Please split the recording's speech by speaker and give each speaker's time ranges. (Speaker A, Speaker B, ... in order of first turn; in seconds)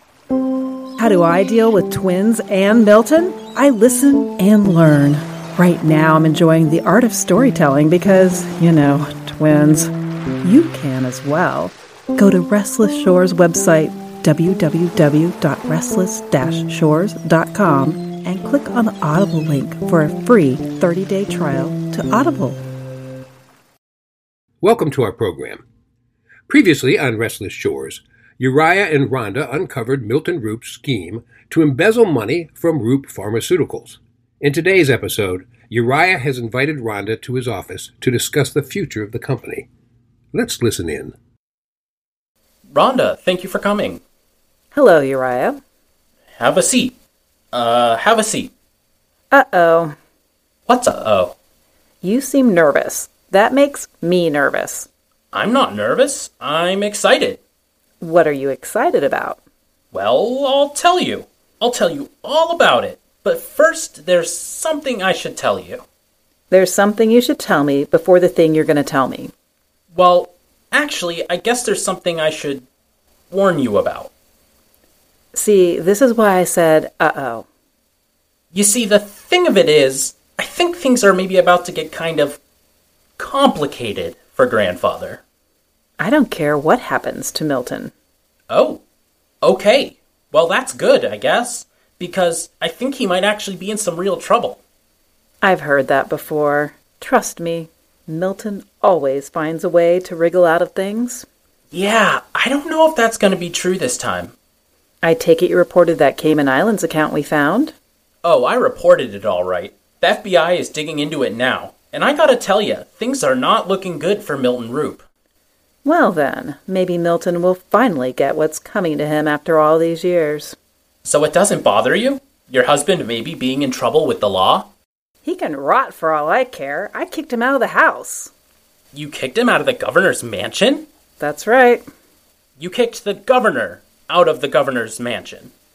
Speaker A: 1.0-9.9, 10.4-22.6, 44.7-45.6, 49.3-49.9, 52.0-54.9, 58.0-59.4, 66.5-69.3, 75.3-77.5, 86.0-87.9, 95.4-101.2, 105.0-107.7, 115.8-120.5, 125.2-128.3, 131.2-131.8
Speaker B: 24.6-25.6, 26.5-39.7, 40.3-41.1
Speaker C: 42.7-44.0, 46.4-46.9, 47.5-48.5, 50.7-51.3, 55.3-57.4, 59.9-65.8, 69.9-72.6, 73.3-74.1, 78.5-82.4, 83.2-85.2, 88.5-88.8, 89.4-94.6, 101.7-104.3, 108.2-115.0, 121.0-124.7, 128.9-130.9, 132.6-135.5